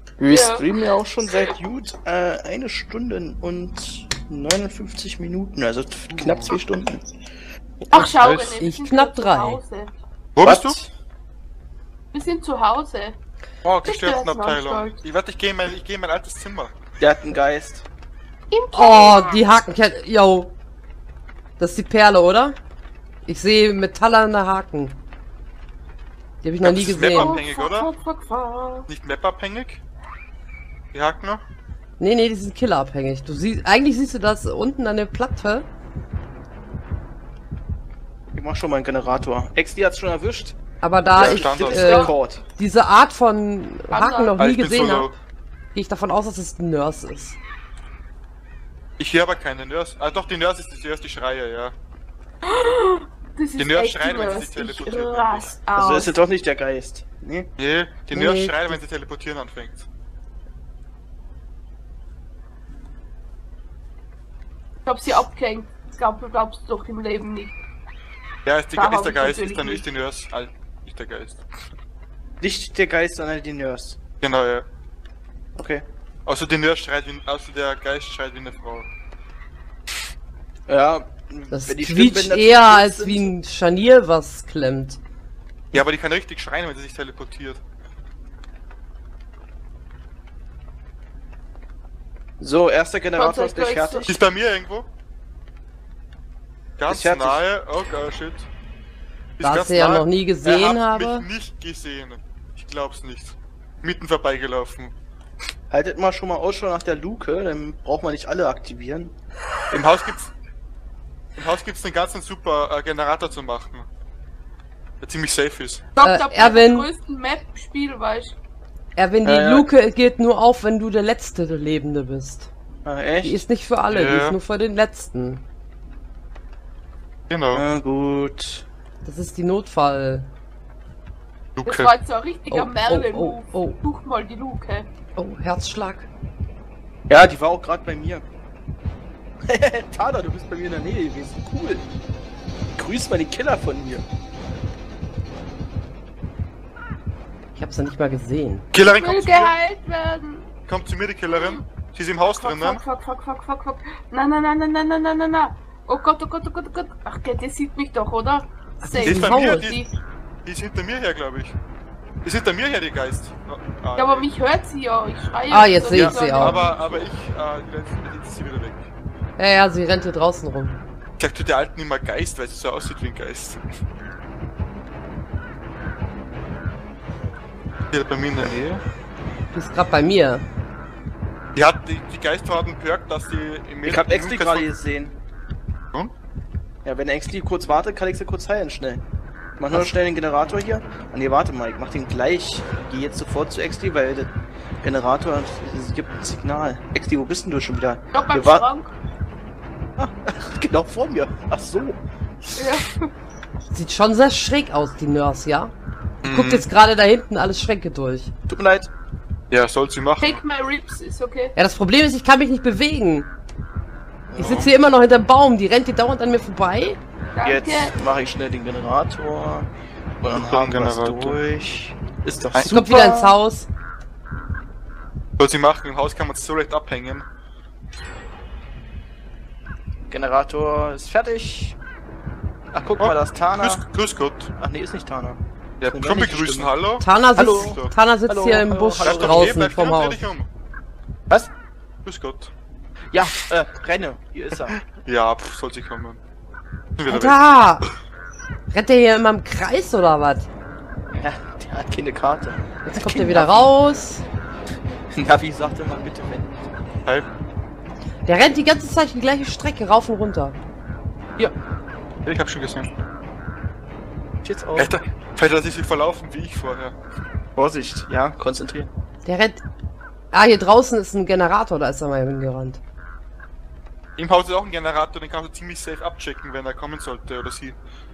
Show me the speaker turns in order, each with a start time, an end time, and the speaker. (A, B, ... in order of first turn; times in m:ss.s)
0:00.2-0:07.1 A
0:00.3-0:00.7 B
0:06.1-0:06.6 C
0:07.9-0:09.6 D
0:07.9-0:09.9 B
0:07.9-0:08.6 C
0:10.4-0:10.8 C
0:10.4-0:10.9 A
0:12.1-0:13.2 B
0:13.6-0:16.7 C
0:13.8-0:15.0 B
0:17.0-0:17.9 A
0:18.5-0:19.4 B
0:18.7-0:20.5 D
0:21.6-0:22.6 D
0:23.2-0:25.0 D
0:26.4-0:27.4 D
0:26.6-0:27.9 C
0:27.0-0:28.9 B
0:28.9-0:29.8 C
0:30.9-0:31.4 C
0:32.0-0:35.7 D
0:38.3-0:40.6 A
0:40.8-0:45.1 D
0:41.2-0:42.1 C
0:41.2-0:42.4 A
0:41.2-0:42.1 B
0:43.9-0:44.4 B
0:44.4-0:45.2 C
0:45.8-0:47.4 D
0:49.0-0:51.8 C
0:52.5-0:56.1 B
0:53.6-0:55.6 C
0:55.8-0:57.5 A
0:57.6-0:59.9 C
0:58.1-0:58.8 D
1:04.9-1:07.6 B
1:08.5-1:11.4 C
1:08.7-1:09.9 B
1:12.4-1:14.0 A
1:14.2-1:14.7 C
1:15.6-1:15.9 A
1:16.3-1:18.9 C
1:20.7-1:23.3 A
1:21.5-1:25.0 D
1:25.7-1:27.6 C
1:32.4-1:34.1 A
1:33.2-1:34.1 B
1:34.0-1:34.9 C
1:36.8-1:38.5 C
1:36.9-1:37.4 A
1:39.4-1:44.9 C
1:39.4-1:41.3 D
1:45.7-1:49.1 A
1:49.7-1:50.3 C
1:51.4-1:53.9 C
1:55.0-1:55.9 C
1:56.0-1:58.4 B
1:56.0-1:56.9 D
1:59.0-2:02.5 D
1:59.2-1:59.7 A
2:02.8-2:03.4 A
2:03.2-2:05.4 D
2:03.9-2:04.4 C
2:07.3-2:07.6 C
2:07.5-2:08.7 A
2:09.0-2:10.3 D
2:11.6-2:11.9 C
2:11.6-2:14.9 B
2:12.5-2:13.8 D
2:15.2-2:16.1 D
2:17.1-2:18.2 A
2:19.5-2:21.8 A
2:22.8-2:24.0 A
2:27.6-2:28.7 D
2:28.7-2:29.5 C
2:28.9-2:30.5 B
2:30.7-2:32.8 C
2:32.2-2:39.9 B
2:38.8-2:39.7 D
2:39.0-2:39.8 C
2:40.5-2:41.6 C
2:42.2-2:44.3 C
2:44.0-2:47.1 B
2:45.5-2:46.6 D
2:45.9-2:48.9 C
2:49.4-2:50.8 D
2:51.2-2:53.6 C
2:57.9-2:58.8 C
2:59.5-3:00.4 D
3:01.6-3:04.7 C
3:03.8-3:05.2 A
3:06.8-3:09.0 A
3:09.6-3:18.7 A
3:18.1-3:19.0 B
3:20.0-3:22.8 A
3:22.6-3:23.1 B
3:23.7-3:25.7 D
3:26.2-3:26.7 C
3:26.3-3:28.3 D
3:28.5-3:28.9 A
3:29.5-3:30.4 C
3:30.2-3:31.6 B
3:31.6-3:33.3 D
3:34.3-3:34.7 A
3:34.4-3:37.0 D
3:34.4-3:34.7 C
3:37.3-3:38.0 B
3:37.4-3:43.4 A
3:40.3-3:41.4 C
3:42.6-3:43.7 D
3:45.4-3:47.3 C
3:50.1-3:51.8 A
3:52.7-3:53.8 A
3:53.0-3:54.5 C
3:54.6-3:56.7 A
3:55.8-3:57.9 C
3:57.0-4:00.3 D
3:57.4-3:59.5 A
3:59.0-4:00.5 C
4:02.0-4:02.5 C
4:03.1-4:04.8 A
4:04.9-4:06.2 C
4:07.0-4:07.4 C
4:07.1-4:07.9 D
4:08.7-4:10.5 D
4:11.2-4:13.7 A
4:12.8-4:14.2 D
4:15.1-4:16.7 A
4:18.2-4:20.6 D
4:22.2-4:22.9 C
4:24.4-4:24.9 A
4:24.8-4:27.0 C
4:27.6-4:28.9 A
4:29.2-4:29.6 D
4:30.3-4:32.8 D
4:34.2-4:37.8 C